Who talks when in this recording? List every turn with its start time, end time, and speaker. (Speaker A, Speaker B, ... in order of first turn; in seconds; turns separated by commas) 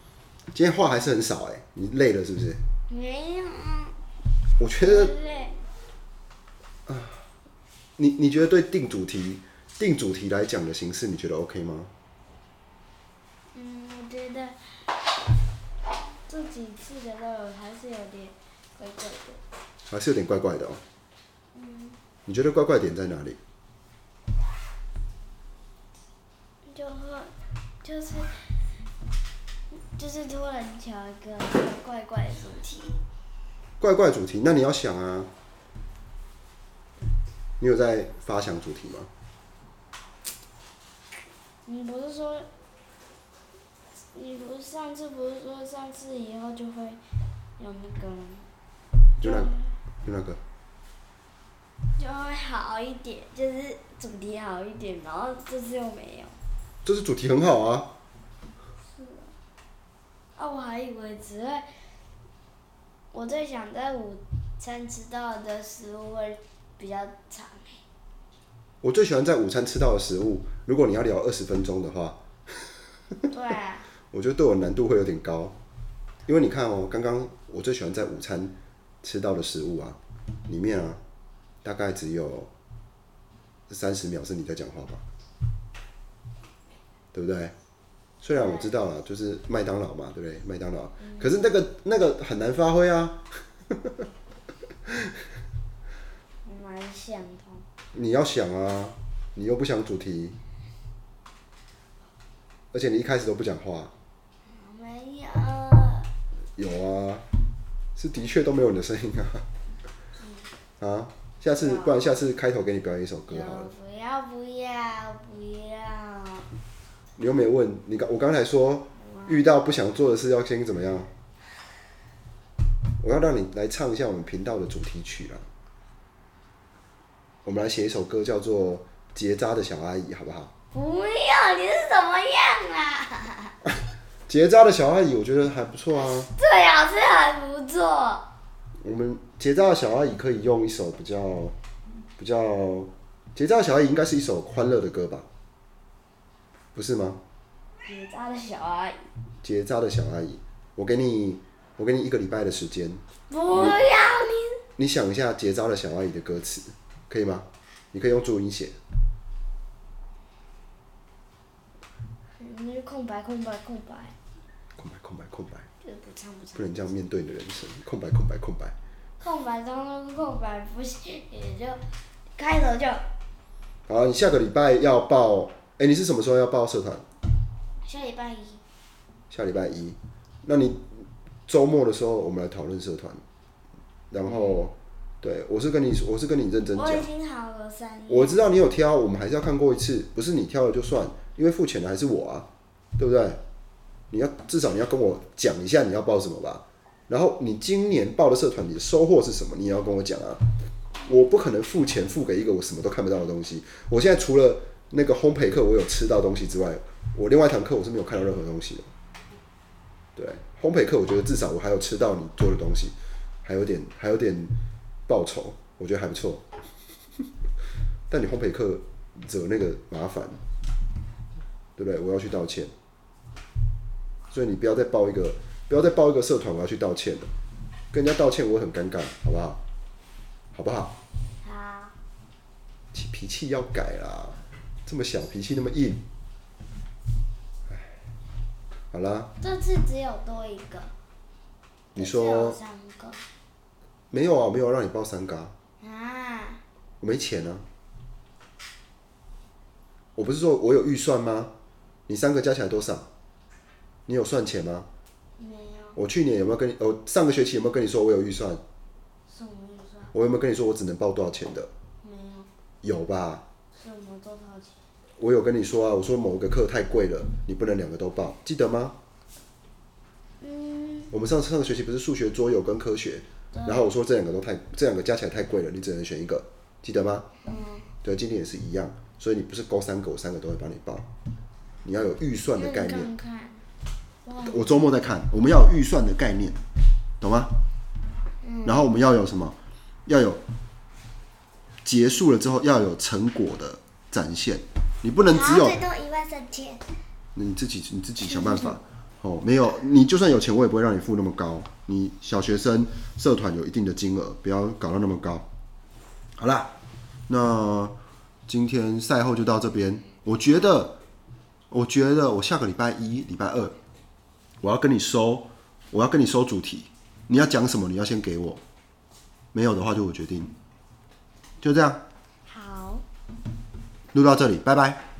Speaker A: 0.5-2.6, Speaker B: 2.9-4.0, Speaker A: 4.6-5.1, Speaker B: 4.8-5.6, Speaker A: 6.9-7.2, Speaker A: 8.0-11.9, Speaker B: 13.5-14.9, Speaker B: 16.3-19.4, Speaker A: 19.9-20.8, Speaker B: 21.5-22.0, Speaker A: 22.2-23.4, Speaker B: 26.7-28.4, Speaker B: 29.7-33.0, Speaker A: 33.8-35.3, Speaker A: 37.6-39.1, Speaker B: 41.6-42.5, Speaker B: 44.1-47.0, Speaker B: 47.6-48.5, Speaker A: 49.2-49.5, Speaker B: 49.2-49.7, Speaker A: 50.0-50.4, Speaker B: 52.0-56.4, Speaker A: 56.8-57.9, Speaker B: 58.8-59.3, Speaker B: 60.4-61.7, Speaker B: 63.1-67.8, Speaker A: 68.8-72.2, Speaker B: 73.3-73.9, Speaker A: 74.1-75.5, Speaker A: 76.2-81.0, Speaker A: 81.6-82.5, Speaker A: 83.7-85.0, Speaker A: 87.1-87.5, Speaker A: 88.2-93.9, Speaker B: 88.3-88.7, Speaker B: 91.0-91.3, Speaker B: 96.4-97.7, Speaker A: 97.9-100.3, Speaker A: 102.7-103.9, Speaker B: 104.4-106.1, Speaker A: 106.6-107.2, Speaker A: 108.0-109.4, Speaker B: 110.2-110.5, Speaker A: 110.8-113.7, Speaker B: 111.5-112.2, Speaker B: 113.3-116.5, Speaker A: 117.2-121.1, Speaker B: 119.0-119.5, Speaker A: 123.0-125.5, Speaker A: 127.4-130.5, Speaker B: 130.7-133.6, Speaker A: 134.3-136.3, Speaker B: 136.0-138.3, Speaker A: 138.8-141.5, Speaker A: 142.2-145.3, Speaker A: 146.7-147.2, Speaker B: 147.8-149.1, Speaker A: 149.4-153.8, Speaker B: 153.3-154.6, Speaker A: 154.8-158.8, Speaker B: 162.4-164.1, Speaker A: 164.8-165.7, Speaker B: 165.8-166.9, Speaker A: 166.5-168.7, Speaker B: 169.2-171.8, Speaker B: 172.3-173.0, Speaker A: 173.9-177.0, Speaker B: 177.8-178.6, Speaker A: 179.3-183.2, Speaker A: 184.1-187.1, Speaker B: 186.7-188.4, Speaker A: 188.1-192.4, Speaker A: 193.0-193.4, Speaker A: 194.1-200.4, Speaker A: 201.1-208.9, Speaker A: 210.2-214.5, Speaker A: 215.1-216.4, Speaker A: 218.1-220.4, Speaker A: 221.8-222.7, Speaker A: 224.3-227.3, Speaker A: 227.9-229.6, Speaker A: 230.5-230.9, Speaker B: 231.4-231.9, Speaker A: 232.9-236.0, Speaker A: 238.9-239.3, Speaker B: 239.4-240.9, Speaker B: 241.9-243.2, Speaker A: 242.0-242.6, Speaker A: 244.1-245.5, Speaker B: 245.8-246.6, Speaker A: 247.0-247.6, Speaker A: 250.2-251.5, Speaker A: 252.1-253.1, Speaker A: 254.1-254.9, Speaker B: 255.4-256.0, Speaker A: 255.9-258.6, Speaker B: 259.3-260.1, Speaker A: 260.1-261.7, Speaker B: 262.0-262.5, Speaker A: 262.8-263.4, Speaker B: 263.7-264.8, Speaker A: 265.2-268.9, Speaker B: 270.4-271.1, Speaker A: 271.1-277.2, Speaker B: 273.5-273.9, Speaker B: 277.4-277.9, Speaker A: 278.0-281.1, Speaker A: 281.8-283.1, Speaker B: 282.5-283.6, Speaker B: 284.2-284.7, Speaker A: 284.4-286.6, Speaker A: 287.2-287.5, Speaker B: 288.4-288.9, Speaker A: 288.6-290.4, Speaker A: 291.8-295.8, Speaker B: 295.3-296.8, Speaker A: 297.3-305.4, Speaker B: 298.2-298.8, Speaker A: 306.4-306.7, Speaker A: 307.3-307.9, Speaker A: 308.5-311.0, Speaker A: 311.7-313.7, Speaker A: 314.6-318.6, Speaker A: 319.5-320.5, Speaker A: 321.6-322.0, Speaker B: 322.4-323.0, Speaker A: 324.1-325.0